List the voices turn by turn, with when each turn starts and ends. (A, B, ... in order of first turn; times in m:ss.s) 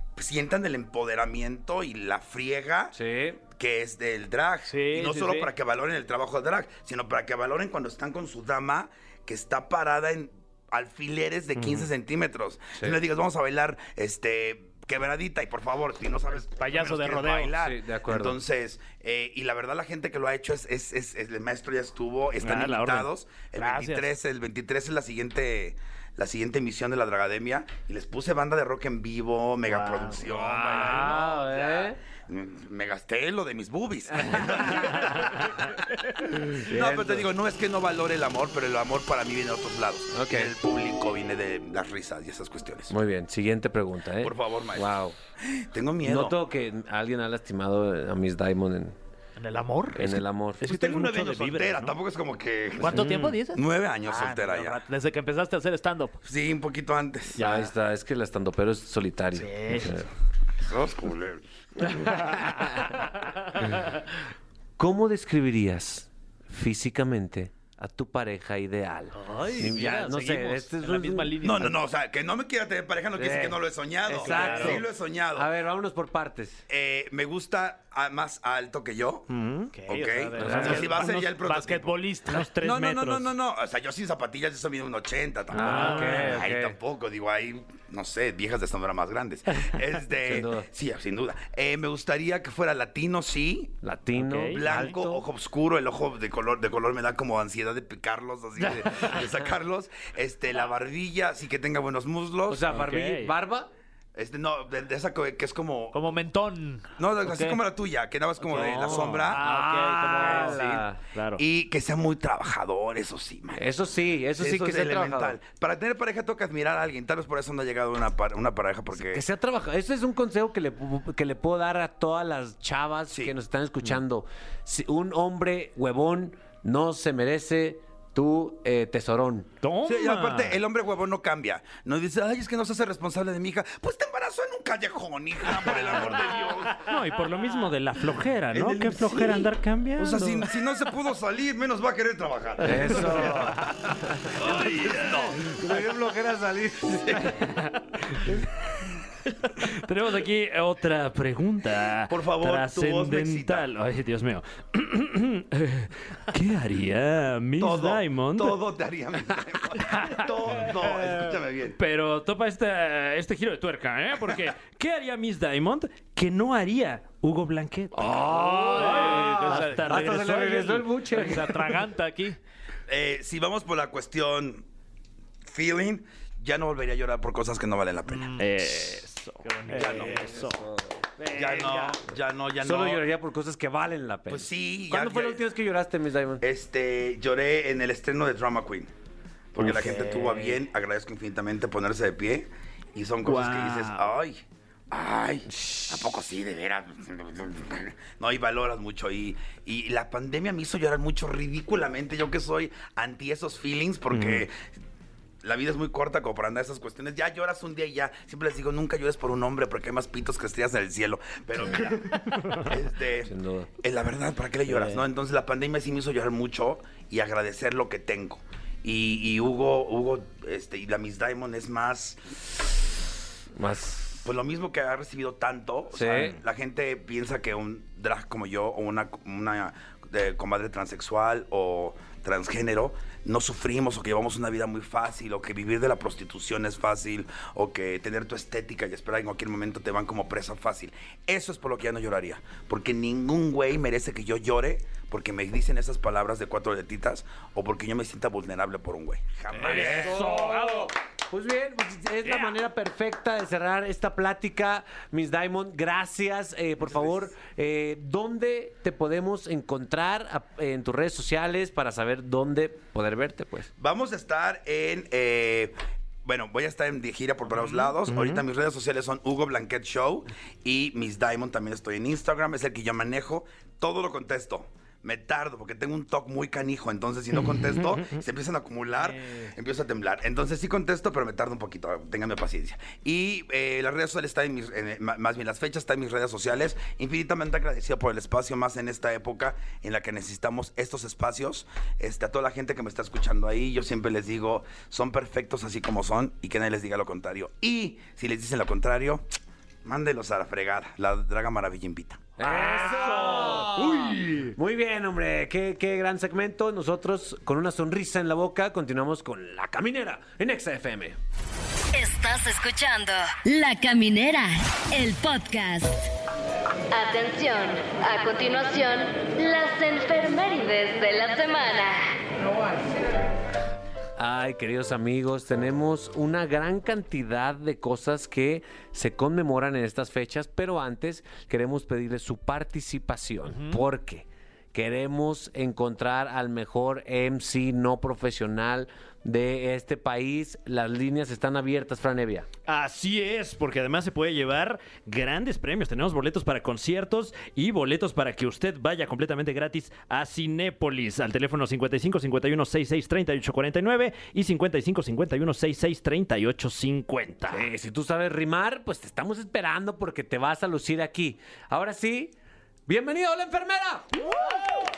0:00.1-0:42.9 A
0:02.9-0:03.4 B
0:04.7-0:05.5 C
0:16.6-0:17.5 C
0:17.6-0:18.4 B
0:22.4-0:23.1 D
0:23.6-0:24.1 C
0:29.7-0:30.2 C
0:30.2-0:32.0 B
0:34.2-0:35.0 B
0:36.5-0:37.3 B
0:40.1-0:40.5 B
0:42.9-0:45.1 B
0:44.2-0:46.4 A
0:46.0-0:49.0 B
0:49.4-0:50.2 C
0:49.9-0:50.7 B
0:50.6-0:51.9 D
0:50.6-0:54.8 A
0:52.8-0:56.2 C
0:53.0-0:53.4 D
0:56.2-0:57.4 A
0:57.4-0:57.7 C
0:57.4-1:00.1 B
0:59.3-0:59.9 C
1:00.6-1:02.2 A
1:01.8-1:02.9 B
1:04.8-1:11.4 B
1:09.1-1:11.7 C
1:11.4-1:15.5 A
1:13.2-1:16.6 B
1:14.2-1:14.8 C
1:16.7-1:19.3 A
1:19.3-1:19.7 D
1:19.7-1:22.4 C
1:19.9-1:22.0 A
1:20.4-1:21.0 B
1:22.3-1:23.3 D
1:22.5-1:33.8 A
1:25.5-1:26.4 D
1:25.6-1:26.8 B
1:30.2-1:30.7 B
1:33.8-1:35.2 B
1:34.2-1:34.7 D
1:34.5-1:42.7 A
1:42.5-1:43.7 B
1:42.7-1:43.3 D
1:44.1-1:46.1 A
1:45.9-1:47.6 C
1:47.0-1:49.4 A
1:48.5-1:51.0 B
1:48.5-1:50.6 C
1:50.2-1:53.7 A
1:51.1-1:51.4 D
1:53.5-1:55.4 B
1:54.4-1:59.2 A
1:58.9-2:09.5 B
2:03.1-2:03.3 A
2:09.6-2:10.6 D
2:09.8-2:16.9 A
2:16.7-2:20.5 D
2:18.5-2:23.6 A
2:22.6-2:23.6 B
2:23.4-2:23.7 D
2:24.2-2:24.4 B
2:24.4-2:25.6 A
2:24.7-2:25.2 D
2:25.4-2:27.5 B
2:27.1-2:27.4 A
2:29.6-2:38.6 D
2:32.1-2:33.7 A
2:37.6-2:41.8 A
2:39.8-2:40.3 D
2:41.8-2:48.2 D
2:47.9-2:51.8 B
2:48.3-2:52.4 C
2:48.7-2:50.3 D
2:52.9-2:54.6 A
2:55.4-2:58.3 A
2:58.1-2:58.5 C
2:58.4-3:00.6 D
2:59.4-3:00.5 C
2:59.8-3:00.2 A
3:00.2-3:00.8 B
3:01.2-3:02.0 D
3:01.3-3:03.1 A
3:02.6-3:06.4 B
3:04.3-3:05.4 A
3:06.4-3:08.9 A
3:09.5-3:24.7 A
3:09.6-3:10.6 B
3:13.3-3:13.9 D
3:15.6-3:15.8 B
3:24.1-3:24.4 D
3:25.4-3:42.7 A
3:33.2-3:33.7 B
3:43.6-3:44.2 B
3:44.2-4:10.3 A
3:45.9-3:46.4 B
4:09.6-4:23.7 B
4:09.7-4:10.9 D
4:12.2-4:12.5 D
4:16.9-4:17.3 A
4:23.8-4:59.2 A
4:28.0-4:28.4 D
4:59.8-5:02.3 A
5:02.4-5:11.2 B
5:02.4-5:04.5 D
5:11.9-5:16.1 E
5:16.9-5:22.1 E
5:24.2-5:42.5 B
5:33.5-5:33.8 C
5:42.7-5:57.7 D
5:57.5-6:02.3 B
6:02.9-6:04.8 B